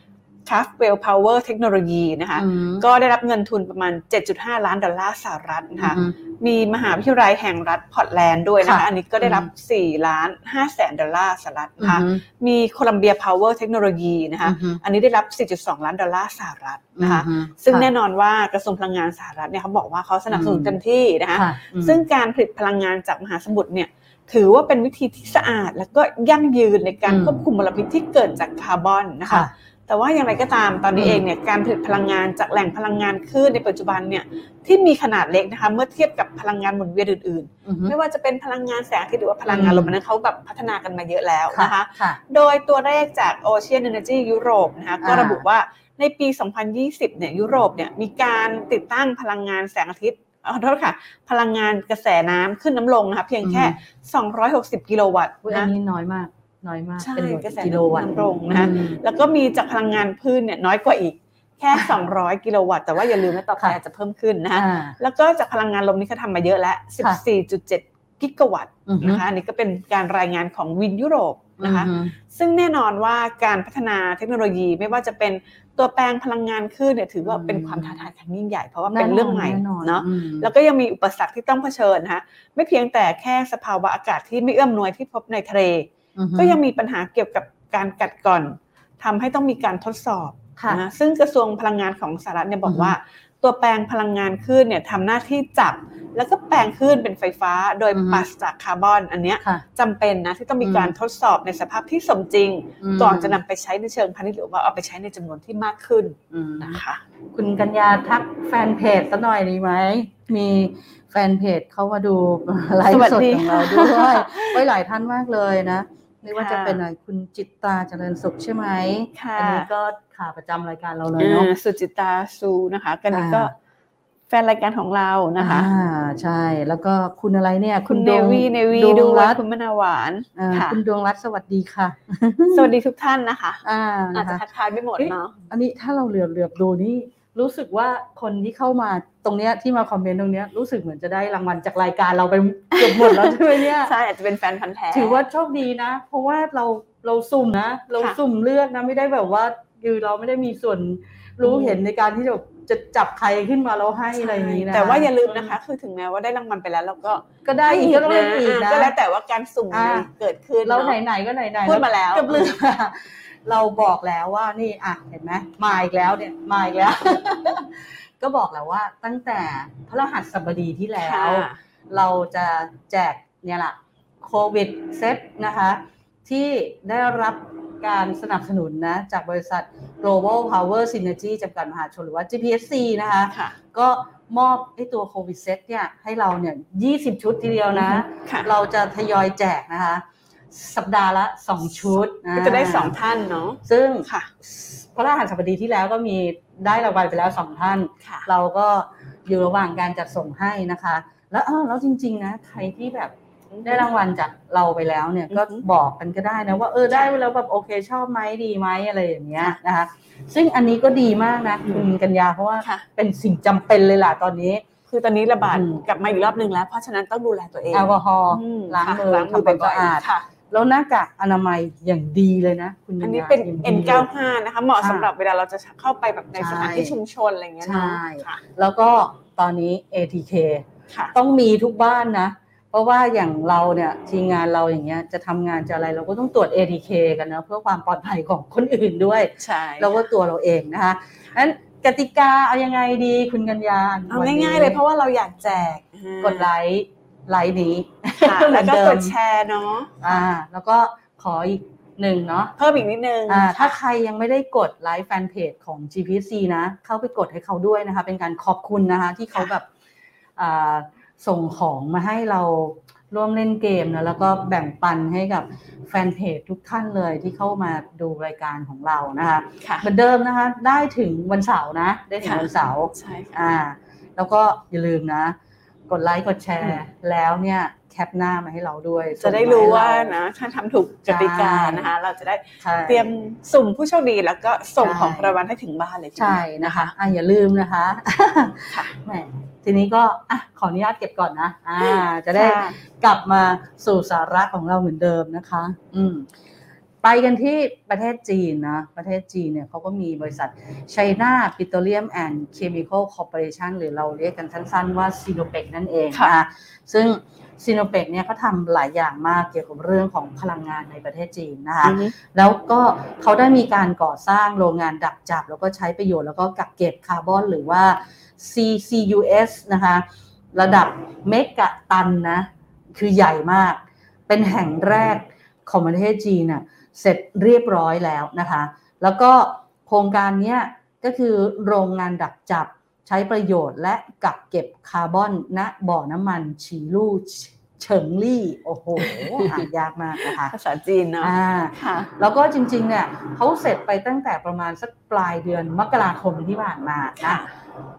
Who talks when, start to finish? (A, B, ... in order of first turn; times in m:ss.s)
0:00.5-0:55.7 A
0:02.4-0:02.9 B
0:05.8-0:06.2 B
0:08.6-0:09.5 B
0:11.8-0:12.2 B
0:14.4-0:14.8 B
0:17.0-0:17.9 B
0:20.3-0:20.8 B
0:21.3-0:22.0 B
0:27.1-0:27.4 B
0:31.0-0:31.2 B
0:37.6-0:38.0 B
0:39.5-0:40.0 B
0:41.5-0:42.2 B
0:45.0-0:45.4 B
0:53.4-0:53.8 B
0:55.4-0:59.0 B
0:57.0-1:47.0 A
1:04.5-1:05.0 B
1:08.9-1:09.2 B
1:11.6-1:12.1 B
1:17.2-1:18.0 B
1:18.9-1:20.5 B
1:26.2-1:26.6 B
1:30.6-1:30.8 B
1:32.7-1:33.0 B
1:37.9-1:38.2 B
1:40.6-1:40.9 B
1:42.8-1:43.4 B
1:46.3-1:46.8 B
1:47.3-2:01.5 B
1:52.9-1:54.6 A
1:56.3-1:56.8 A
1:59.2-1:59.7 A
2:01.2-2:03.5 A
2:03.1-2:03.5 B
2:04.3-2:05.7 A
2:05.4-2:09.4 B
2:07.9-2:10.8 A
2:10.4-2:12.7 B
2:12.5-2:15.4 A
2:13.6-2:14.4 B
2:15.0-2:24.0 B
2:22.7-2:25.2 A
2:24.9-2:35.6 B
2:31.4-2:31.8 A
2:34.2-2:41.0 A
2:37.4-2:38.9 B
2:39.7-2:40.1 B
2:40.6-3:13.0 B
2:41.7-2:42.6 A
2:51.0-2:51.6 A
3:03.3-3:03.6 A
3:07.7-3:08.5 A
3:12.3-3:14.3 A
3:13.6-3:34.6 B
3:23.5-3:23.9 A
3:25.3-3:25.6 A
3:34.9-3:40.3 A
3:35.5-3:35.8 B
3:37.7-3:44.1 B
3:43.0-3:48.4 A
3:44.8-3:45.1 B
3:46.4-3:47.0 B
3:47.6-4:04.8 B
3:59.4-4:00.0 A
4:04.1-4:06.5 A
4:06.2-4:09.2 B
4:08.2-4:10.0 A
4:10.0-4:12.5 B
4:12.6-4:13.8 A
4:13.3-4:19.7 B
4:20.4-4:35.4 B
4:29.6-4:29.9 A
4:32.2-4:33.4 A
4:35.9-4:40.2 B
4:39.2-4:46.9 A
4:41.1-4:41.9 B
4:42.6-4:43.1 B
4:44.8-4:45.4 B
4:46.2-4:56.3 B
4:51.8-4:52.8 A
4:57.0-5:40.5 B
5:11.8-5:12.1 A
5:39.0-5:39.6 A
5:40.2-5:42.1 A
5:41.2-5:47.4 B
5:47.2-5:47.5 A